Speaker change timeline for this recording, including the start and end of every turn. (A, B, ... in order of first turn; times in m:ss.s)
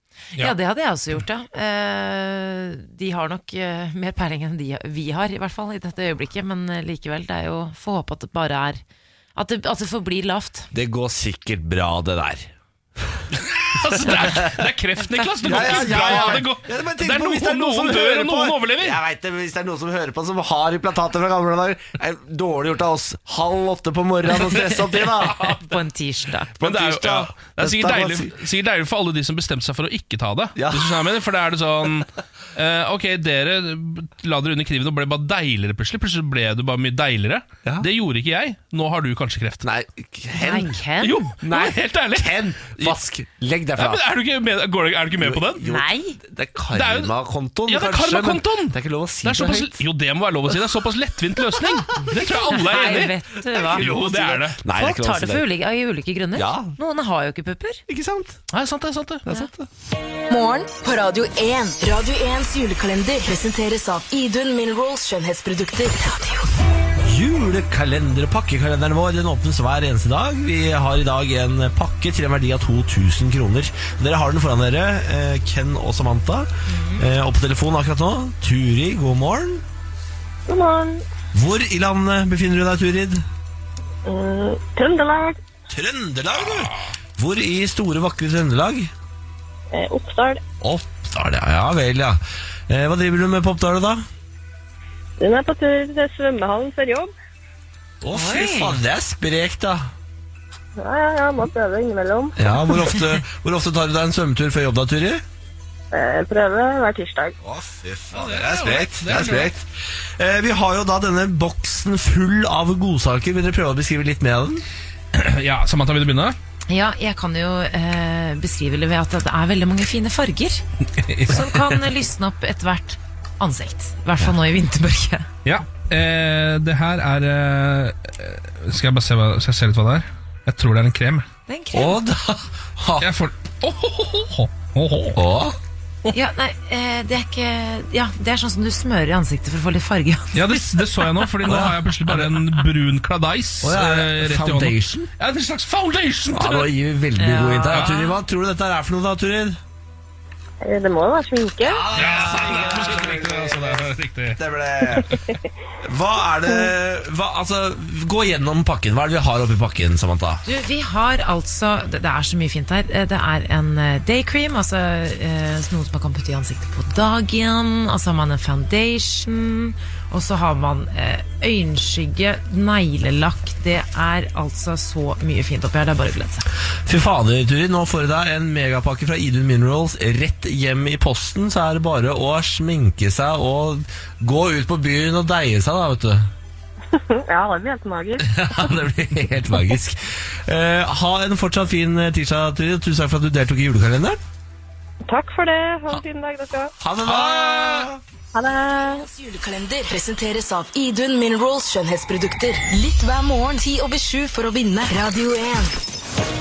0:00.4-0:08.8 A
0:09.4-0:10.7 A
0:10.7-0:13.3 B
0:13.4-0:19.0 C
0:13.9-0:14.5 B
0:15.4-0:25.4 B
0:15.9-0:16.2 A
0:24.4-0:26.5 A
0:26.6-0:28.4 B
0:26.6-0:39.6 C
0:30.6-0:31.0 B
0:39.6-0:40.8 B
0:40.4-0:41.3 A
0:41.0-0:43.0 C
0:41.4-0:44.0 B
0:43.8-0:45.6 C
0:45.2-0:49.8 B
0:45.6-0:46.2 A
0:46.7-0:47.1 C
0:47.7-0:54.6 C
0:52.0-0:53.9 A
0:53.6-0:55.5 B
0:54.7-0:57.8 A
0:56.4-0:56.8 B
0:57.9-0:58.4 B
0:58.5-0:59.3 C
0:59.3-0:59.7 B
1:00.3-1:06.5 D
1:07.0-1:19.6 B
1:16.7-1:17.0 A
1:20.5-1:21.0 E
1:21.3-1:23.2 B
1:24.1-1:25.4 E
1:25.7-1:28.9 B
1:29.7-1:30.4 E
1:30.6-1:34.0 B
1:35.2-1:37.1 E
1:38.0-1:39.9 B
1:38.1-1:38.8 A
1:40.8-1:42.4 E
1:42.4-1:45.2 B
1:45.9-1:47.4 E
1:47.4-1:54.6 B
1:48.1-1:49.5 C
1:55.1-1:56.4 C
1:56.7-2:00.6 A
2:01.0-2:01.4 C
2:01.2-2:05.3 A
2:05.4-2:11.3 C
2:11.5-2:12.0 A
2:11.7-2:13.1 B
2:13.0-2:15.2 C
2:15.2-2:15.6 B
2:16.1-2:21.1 A
2:20.3-2:26.7 C
2:21.4-2:22.4 B
2:23.6-2:25.1 B
2:26.3-2:29.6 B
2:27.2-2:28.2 A
2:30.6-2:31.9 E
2:31.6-2:35.1 B
2:31.9-2:35.2 C
2:35.8-2:40.4 B
2:40.4-2:56.5 A
2:56.9-3:06.3 B
3:06.9-3:08.3 E
3:08.2-3:14.2 B
3:15.1-3:16.7 E
3:16.8-3:18.0 B
3:17.0-3:17.9 C
3:18.3-3:19.0 E
3:19.0-3:25.7 D